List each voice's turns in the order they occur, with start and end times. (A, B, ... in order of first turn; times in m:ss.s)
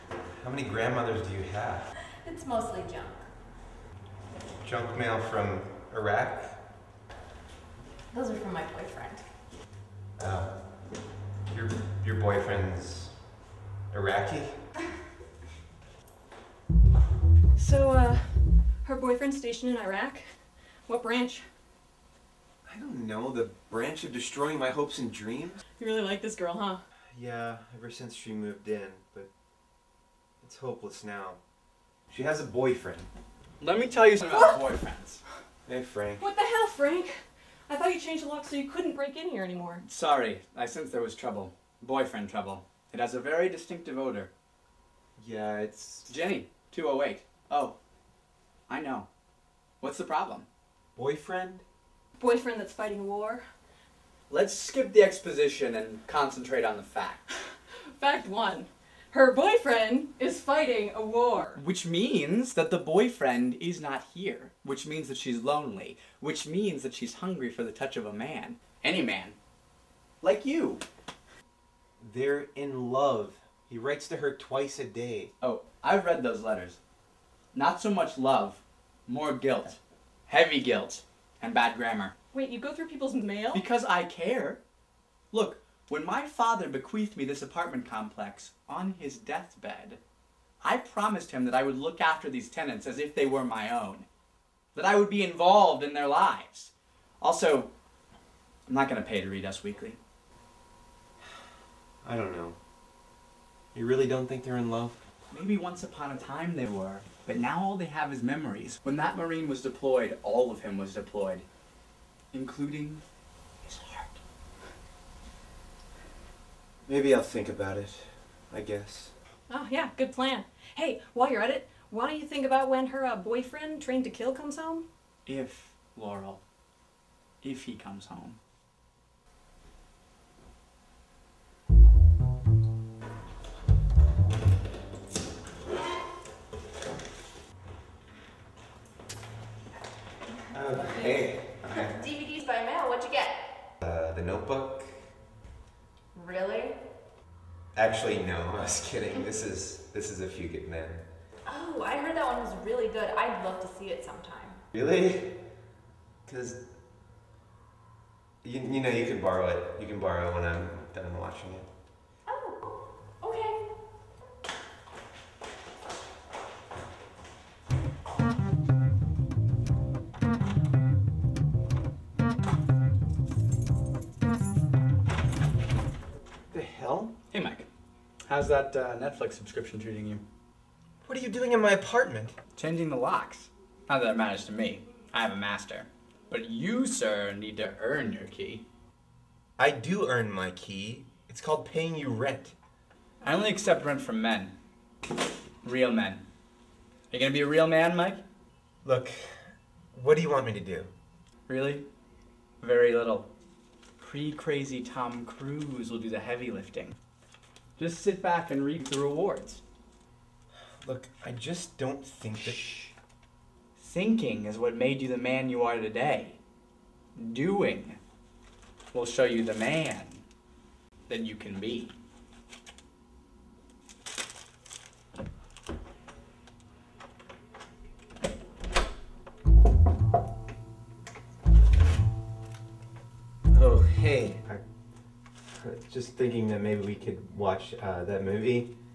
0:00.3-0:01.9 A
0:02.2-0:03.2 B
0:04.6-0:06.6 A
0:08.1-0:09.3 B
0:10.2-0:10.9 A
0:11.4-0:13.2 A
0:13.9-0:14.7 A
0:17.6-0:21.5 C
0:22.6-0:25.6 A
0:25.8-0:26.8 C
0:27.1-0:29.3 A
0:30.4-0:31.4 A
0:32.1-0:33.1 A
0:33.6-0:35.2 D
0:34.2-0:34.6 C
0:35.6-0:36.2 A
0:36.2-0:39.8 C
0:39.8-0:44.3 D
0:45.2-0:46.1 A
0:46.0-0:47.8 D
0:48.7-0:49.1 D
0:49.8-0:50.4 D
0:51.0-0:51.6 A
0:52.2-0:53.4 C
0:54.3-0:57.3 D
0:57.9-1:01.6 C
1:01.5-1:09.4 D
1:10.2-1:10.8 D
1:12.0-1:15.3 A
1:15.4-1:16.8 D
1:17.5-1:22.1 D
1:22.3-1:23.6 C
1:23.5-1:24.6 D
1:25.3-1:30.0 D
1:30.6-1:34.1 D
1:34.7-1:37.7 D
1:38.7-1:40.0 D
1:42.0-1:42.6 A
1:43.7-1:45.0 A
1:45.3-1:51.4 D
1:52.3-1:53.0 D
1:53.6-1:54.1 D
1:56.8-1:59.1 A
1:59.5-2:04.8 C
2:05.2-2:06.4 D
2:07.4-2:08.4 D
2:20.5-2:22.0 A
2:20.8-2:23.6 B
2:23.8-2:25.1 A
2:26.1-2:26.9 B
2:27.7-2:31.0 A
2:31.4-2:34.6 B
2:34.7-2:35.4 A
2:36.2-2:36.6 A
2:38.4-2:41.7 A
2:42.3-2:43.7 B
2:56.5-2:57.1 A
2:57.3-2:57.7 D
2:58.2-3:00.2 D
3:01.0-3:02.4 A
3:02.5-3:08.6 D
3:09.6-3:12.5 A
3:13.2-3:14.6 D
3:15.6-3:16.2 D
3:17.1-3:18.2 D
3:18.8-3:20.9 A
3:21.5-3:21.9 D
3:22.6-3:23.3 D
3:24.0-3:27.0 D
3:27.8-3:29.6 D
3:30.8-3:32.8 A
3:32.4-3:32.9 D
3:33.8-3:36.4 D
3:37.2-3:38.0 D
3:38.9-3:40.2 D
3:41.1-3:41.9 D
3:53.5-3:54.6 A
3:55.4-3:58.7 A